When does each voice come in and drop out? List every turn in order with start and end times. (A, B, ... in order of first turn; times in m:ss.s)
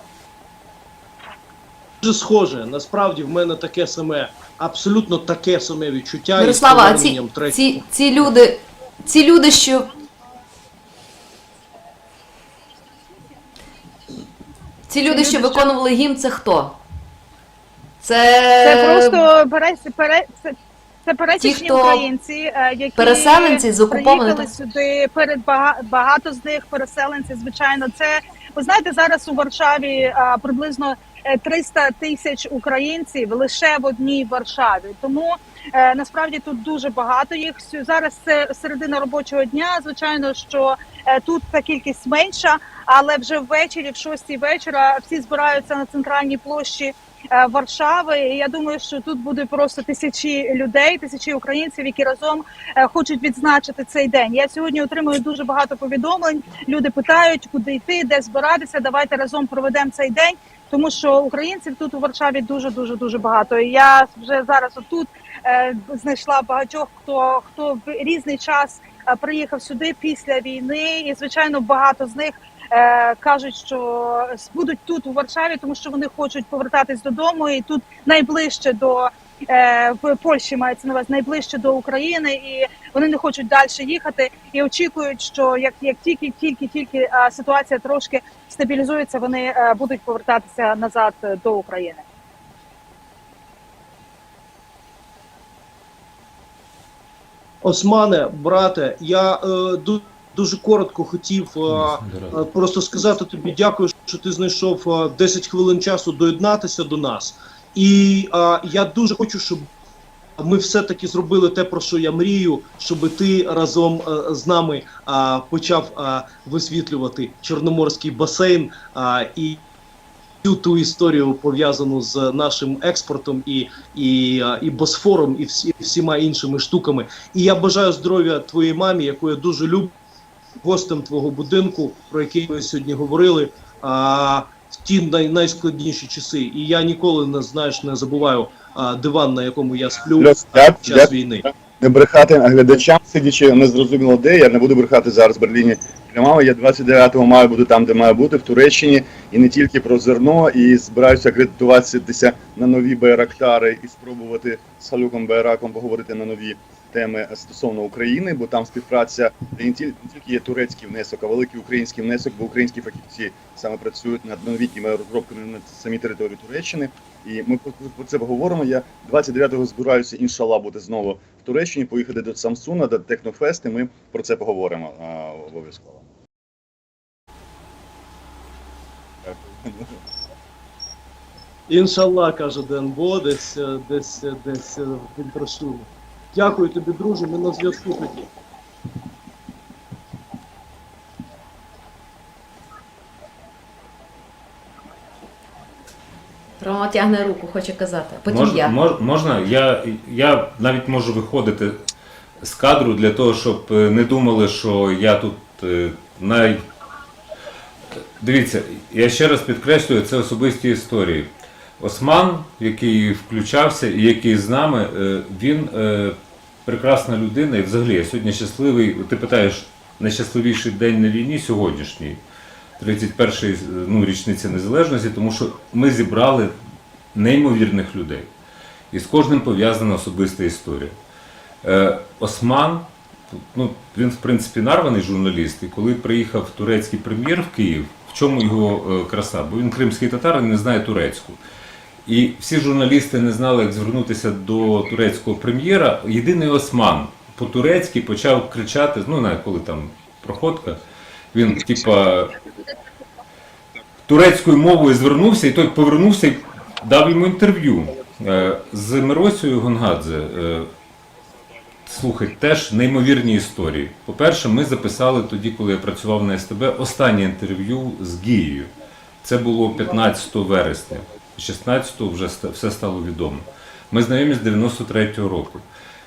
0:02.0-0:07.8 A
0:06.4-0:09.9 B
0:14.9-0:16.8 B
0:15.0-0:15.7 C
0:18.0-0:19.3 B
0:18.6-1:32.0 C
0:21.4-0:22.1 B
0:23.0-0:24.5 B
1:37.6-1:49.7 A
1:41.7-1:42.4 D
1:50.4-1:59.6 A
2:00.4-2:09.9 A
2:10.6-2:21.4 A
2:20.2-2:56.0 E
2:59.2-3:00.0 E
3:01.7-3:08.3 A
3:16.6-3:18.8 B
3:18.3-3:21.8 D
3:22.4-3:26.6 D
3:28.2-3:42.2 D
3:42.8-3:46.6 D
3:47.1-3:48.3 D
3:48.9-3:51.0 D
3:51.6-4:01.4 D
4:02.1-4:10.8 D
4:11.3-4:12.4 D
4:14.1-4:20.7 D
4:21.8-4:35.6 D